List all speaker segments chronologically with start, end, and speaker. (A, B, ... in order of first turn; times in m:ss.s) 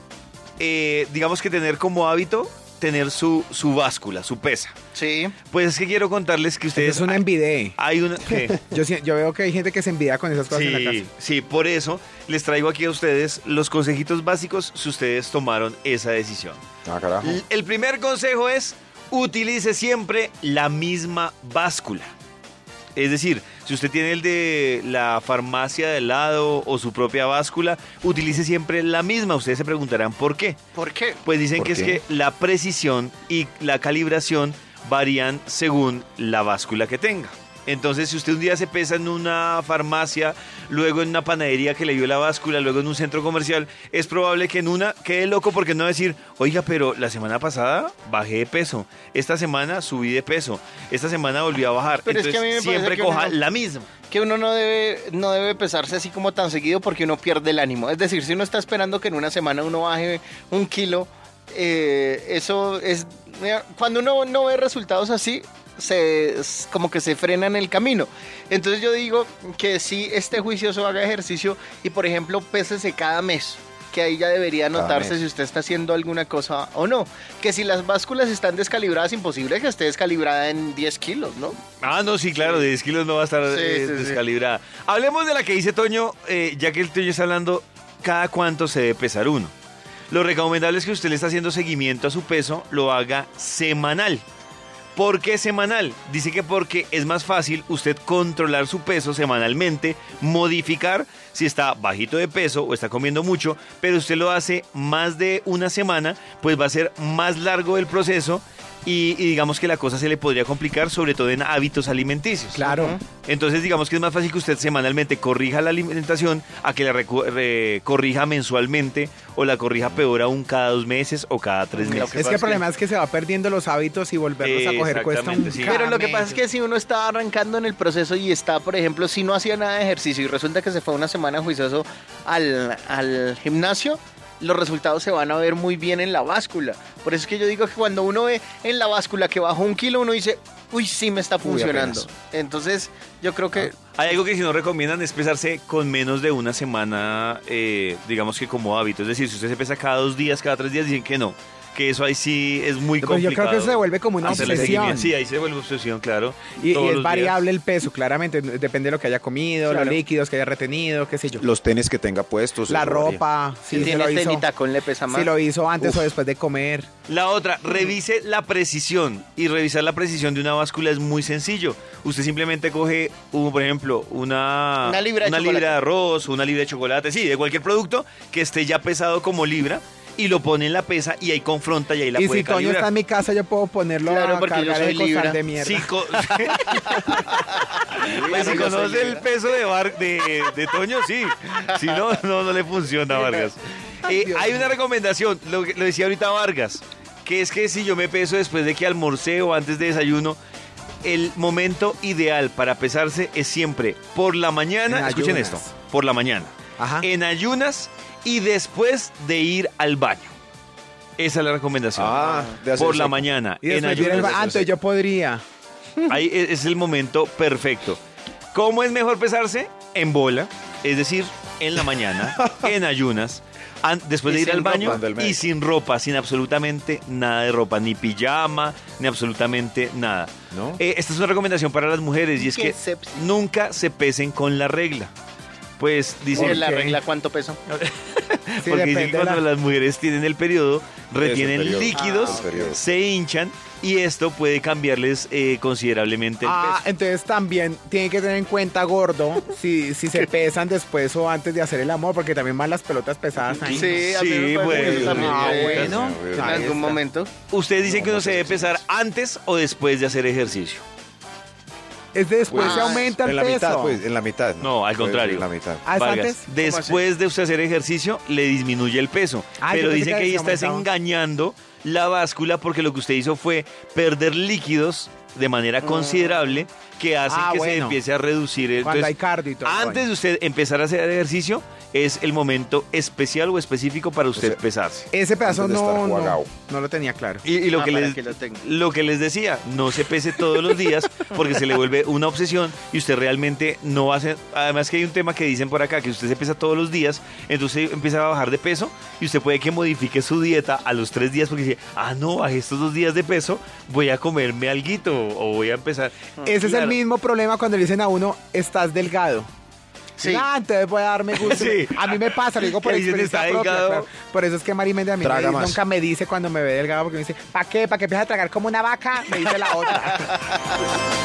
0:00.6-0:04.7 A
0:05.0-0:05.4 B
0:05.4-0:08.6 A
0:06.8-0:07.8 C
0:08.3-0:11.1 C
0:10.5-0:16.6 A
0:16.8-0:17.4 D
0:17.2-0:22.1 A
0:22.9-0:30.6 A
0:30.8-0:31.2 B
0:31.2-0:53.9 A
0:31.6-0:32.0 D
0:52.0-0:53.4 B
0:54.1-1:21.6 B
1:14.7-1:15.2 D
1:21.8-1:29.5 A
1:23.5-1:24.2 B
1:30.1-1:34.2 A
1:35.0-1:52.7 A
1:52.5-1:53.0 C
1:52.7-1:53.0 B
1:53.2-2:02.6 A
2:01.8-2:02.6 B
2:01.9-2:06.0 C
2:04.4-2:06.4 A
2:05.6-2:23.8 B
2:21.4-2:22.0 D
2:23.9-2:37.4 A
2:33.0-2:35.1 C
2:34.3-2:34.9 D
2:36.6-2:41.4 C
2:39.7-2:40.0 B
2:41.4-2:43.2 D
2:42.7-2:44.4 C
2:43.7-2:45.3 B
2:45.1-2:46.9 C
2:45.8-2:46.0 D
2:47.1-3:02.9 A
2:54.8-2:55.8 B
3:02.1-3:05.9 C
3:04.0-3:05.4 B
3:05.5-3:20.4 A
3:06.9-3:09.2 B
3:08.2-3:08.6 D
3:14.0-3:14.7 C
3:21.0-3:30.3 A
3:24.9-3:25.7 C
3:26.8-3:27.1 C
3:31.2-3:34.7 A
3:31.9-3:33.3 D
3:32.2-3:32.6 B
3:33.6-3:35.4 C
3:36.1-3:38.0 A
3:38.5-3:55.1 A
3:44.3-3:45.4 D
3:44.6-3:45.0 B
3:50.5-3:50.8 D
3:52.4-3:53.2 B
3:55.8-3:56.7 A
3:56.3-3:57.6 B
3:56.5-3:57.0 C
3:57.7-4:06.8 A
3:58.6-3:59.4 C
4:01.2-4:02.8 D
4:01.9-4:02.4 B
4:06.4-4:14.0 C
4:13.6-4:16.1 A
4:13.7-4:17.3 B
4:14.7-4:16.7 C
4:14.8-4:15.3 D
4:15.8-4:17.0 D
4:17.5-4:20.8 A
4:17.8-4:18.8 D
4:22.1-4:24.0 C
4:22.5-4:25.9 D
4:22.6-4:23.1 B
4:24.6-4:45.1 A
4:25.8-4:26.5 C
4:26.6-4:27.0 B
4:29.6-4:30.8 C
4:35.8-4:36.5 B
4:37.3-4:38.0 C
4:38.8-4:40.0 C
4:45.1-4:47.4 C
4:45.4-4:46.5 D
4:47.4-5:07.0 A
4:47.7-4:48.6 B
5:06.4-5:09.5 C
5:10.2-5:10.4 B
5:10.2-5:20.3 C
5:11.3-5:14.1 A
5:15.2-5:15.8 D